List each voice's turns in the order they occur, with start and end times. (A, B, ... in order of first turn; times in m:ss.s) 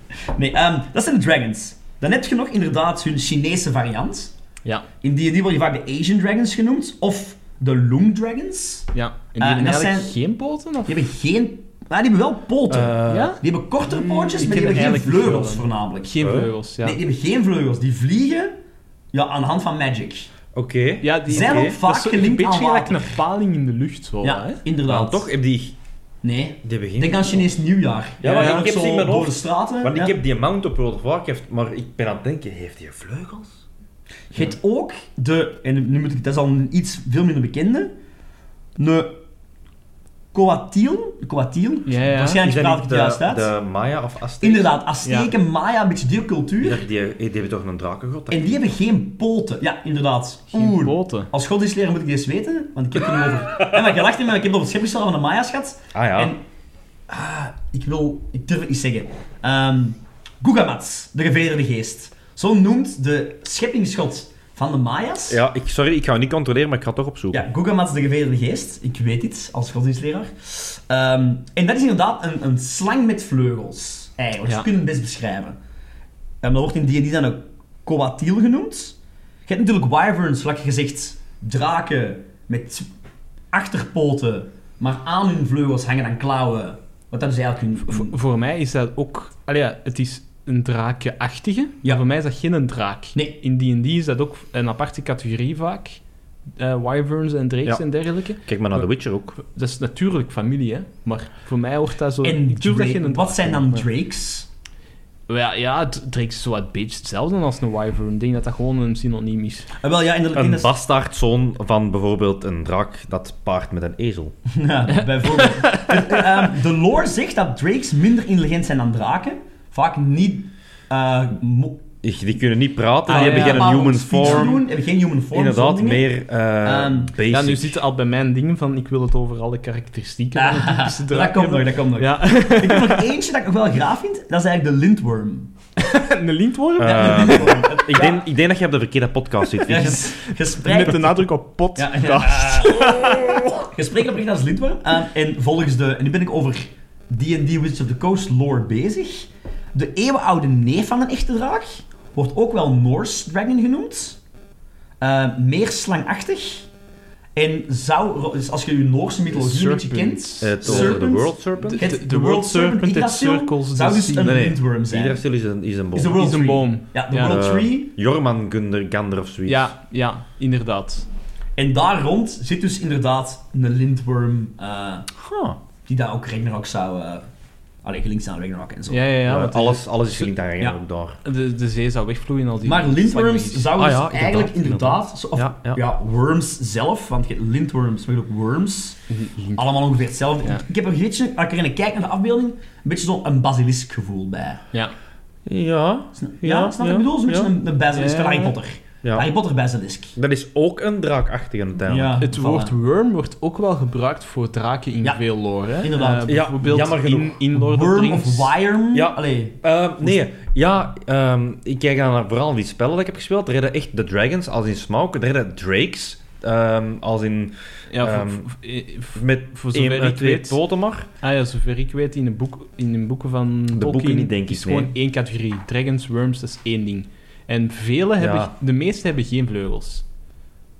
0:00.3-0:04.3 A
0:05.0-0:10.2 A
0:08.9-0:11.0 B
0:10.9-0:16.2 A
0:12.7-0:13.4 C
0:13.1-0:17.0 B
0:16.2-0:16.5 C
0:16.8-0:18.5 A
0:19.1-0:20.3 A
0:20.6-0:21.7 C
0:21.0-0:24.6 B
0:21.3-0:23.2 A
0:24.2-0:25.3 A
0:24.9-0:25.8 C
0:26.2-0:30.2 A
0:26.6-0:27.4 C
0:28.2-0:33.6 C
0:28.3-0:28.6 B
0:34.3-0:37.9 A
0:38.8-0:39.2 A
0:40.3-0:43.5 A
0:41.9-0:42.4 B
0:42.4-0:44.8 C
0:44.4-0:46.8 A
0:45.0-0:45.3 B
0:46.6-0:48.6 C
0:48.3-0:56.4 A
0:50.5-0:51.3 B
0:55.9-0:56.3 C
0:57.1-1:05.4 A
1:05.3-1:07.4 C
1:07.3-1:15.6 A
1:16.4-1:19.0 A
1:19.5-1:22.9 A
1:23.5-1:28.1 A
1:27.8-1:36.0 B
1:36.6-1:43.9 B
1:38.5-1:39.4 C
1:42.2-1:44.5 A
1:45.3-1:49.7 B
1:49.8-1:50.7 A
1:50.4-1:54.4 C
1:54.5-2:01.8 A
1:55.0-1:56.4 B
2:02.0-2:04.6 C
2:03.1-2:06.1 A
2:03.1-2:04.6 B
2:05.3-2:07.8 C
2:06.6-2:07.1 A
2:07.3-2:13.0 B
2:10.4-2:15.5 A
2:15.8-2:18.1 B
2:16.8-2:20.0 C
2:16.8-2:18.2 A
2:19.6-2:23.5 B
2:19.7-2:21.2 A
2:21.8-2:34.2 A
2:35.0-2:36.7 A
2:37.4-2:45.2 A
2:39.3-2:41.1 B
2:40.4-2:41.8 C
2:41.6-2:44.4 B
2:44.2-2:46.4 C
2:45.9-2:47.9 A
2:46.2-2:47.4 B
2:47.2-2:49.7 C
2:49.5-2:51.1 B
2:51.6-2:55.1 A
2:55.2-2:55.6 C
2:55.9-2:57.3 A
2:57.8-2:59.0 A
2:58.9-3:00.3 B
2:59.2-3:01.2 C
3:01.2-3:03.8 B
3:02.6-3:09.0 A
3:03.8-3:05.8 C
3:09.1-3:09.7 B
3:09.6-3:14.6 A
3:15.5-3:17.5 C
3:16.1-3:20.2 A
3:17.9-3:18.6 B
3:20.2-3:22.2 C
3:21.9-3:22.7 A
3:22.2-3:28.6 B
3:25.8-3:26.4 A
3:26.3-3:27.4 C
3:27.5-3:30.1 A
3:28.9-3:38.5 C
3:37.9-3:40.6 B
3:39.2-3:41.1 C
3:41.2-3:50.0 B
3:43.7-3:44.9 C
3:48.2-3:48.5 C